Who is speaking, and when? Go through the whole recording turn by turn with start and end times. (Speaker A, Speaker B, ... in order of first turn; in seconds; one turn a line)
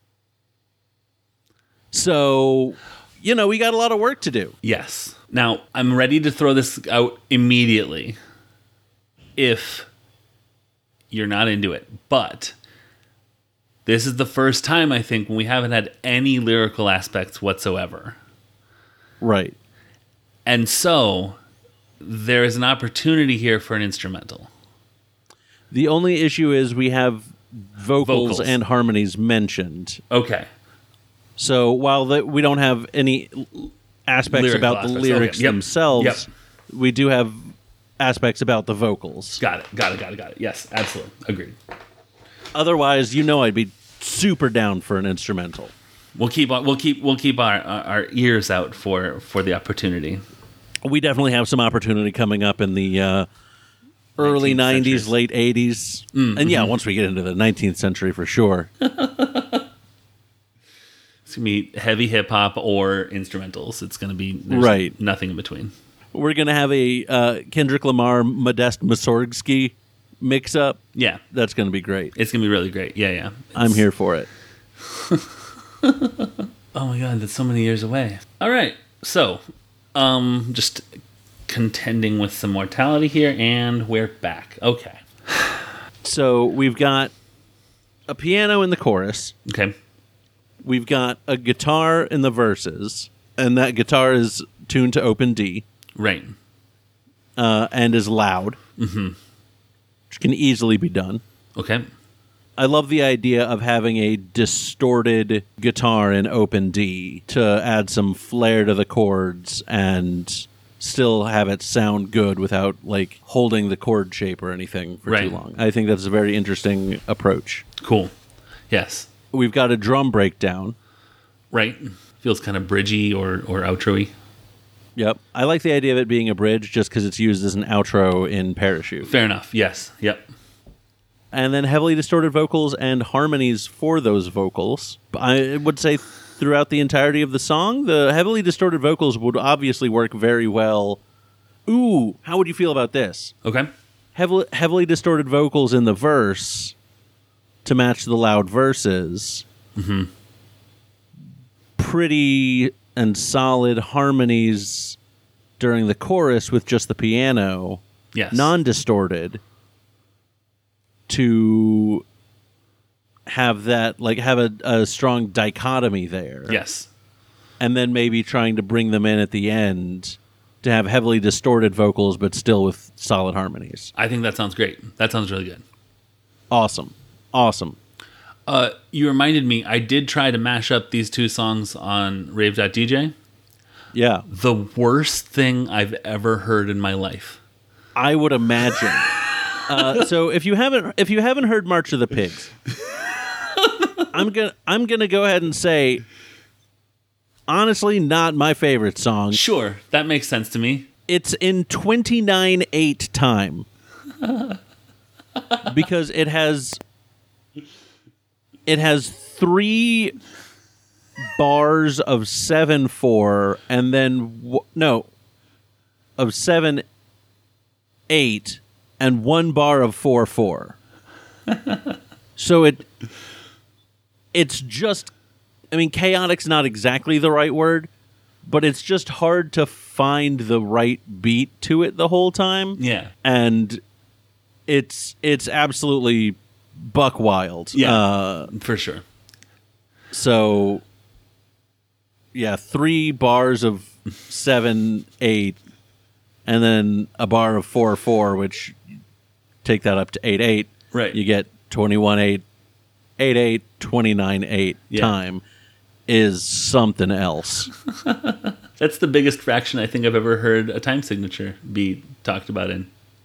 Speaker A: 1.9-4.5
Speaker B: 4.6-8.2
Speaker B: 9.3-9.9
Speaker B: 11.1-12.5
Speaker B: 13.8-18.2
Speaker A: 19.2-19.6
Speaker B: 20.4-21.4
Speaker B: 22.0-24.5
Speaker A: 25.7-30.0
Speaker B: 28.0-28.6
Speaker B: 30.1-30.5
Speaker A: 31.4-39.4
Speaker B: 34.3-36.2
Speaker B: 39.4-41.5
Speaker A: 42.5-45.7
Speaker B: 46.1-50.2
Speaker A: 50.8-53.3
Speaker A: 54.2-58.7
Speaker B: 54.2-55.1
Speaker B: 56.1-56.7
Speaker B: 58.8-59.6
Speaker B: 61.3-65.7
Speaker A: 64.5-64.9
Speaker A: 66.1-70.8
Speaker B: 70.9-71.2
Speaker A: 71.3-72.1
Speaker B: 72.1-73.8
Speaker A: 73.5-74.3
Speaker B: 74.8-79.4
Speaker B: 79.9-80.8
Speaker B: 81.5-85.6
Speaker A: 86.0-87.1
Speaker A: 88.1-89.3
Speaker B: 89.5-89.7
Speaker A: 90.6-95.6
Speaker B: 96.0-96.3
Speaker A: 97.4-98.6
Speaker B: 98.8-99.2
Speaker A: 100.1-101.2
Speaker B: 101.5-101.8
Speaker A: 102.6-117.6
Speaker B: 115.0-115.4
Speaker B: 117.8-118.1
Speaker B: 118.7-119.1
Speaker A: 119.3-120.8
Speaker B: 121.5-124.1
Speaker A: 125.0-129.1
Speaker B: 129.0-130.3
Speaker A: 131.3-141.0
Speaker A: 141.7-143.3
Speaker B: 143.4-143.7
Speaker A: 144.1-146.7
Speaker A: 147.6-149.4
Speaker B: 149.7-150.1
Speaker A: 151.8-155.0
Speaker A: 155.6-159.4
Speaker B: 158.1-158.5
Speaker A: 161.1-162.0
Speaker A: 163.3-166.6
Speaker B: 166.5-166.9
Speaker A: 167.6-173.9
Speaker B: 173.9-175.6
Speaker A: 176.5-177.8
Speaker B: 178.4-183.1
Speaker A: 183.9-184.2
Speaker B: 184.3-187.4
Speaker A: 187.9-189.1
Speaker A: 189.7-192.5
Speaker B: 189.7-190.0
Speaker A: 194.1-196.0
Speaker A: 197.5-199.4
Speaker B: 199.3-200.9
Speaker A: 201.1-203.7
Speaker B: 204.2-204.6
Speaker A: 205.6-206.8
Speaker A: 208.7-210.1
Speaker A: 211.2-215.1
Speaker A: 216.2-216.8
Speaker A: 218.1-220.8
Speaker B: 221.5-221.8
Speaker A: 222.3-222.8
Speaker A: 224.3-225.1
Speaker A: 225.7-227.9
Speaker A: 228.4-233.8
Speaker B: 232.8-233.1
Speaker A: 234.7-238.5
Speaker B: 237.7-239.0
Speaker A: 240.1-240.8
Speaker A: 242.3-245.6
Speaker A: 246.4-248.8
Speaker A: 249.6-252.4
Speaker B: 250.9-251.2
Speaker A: 253.2-255.4
Speaker A: 256.1-257.7
Speaker B: 257.9-262.9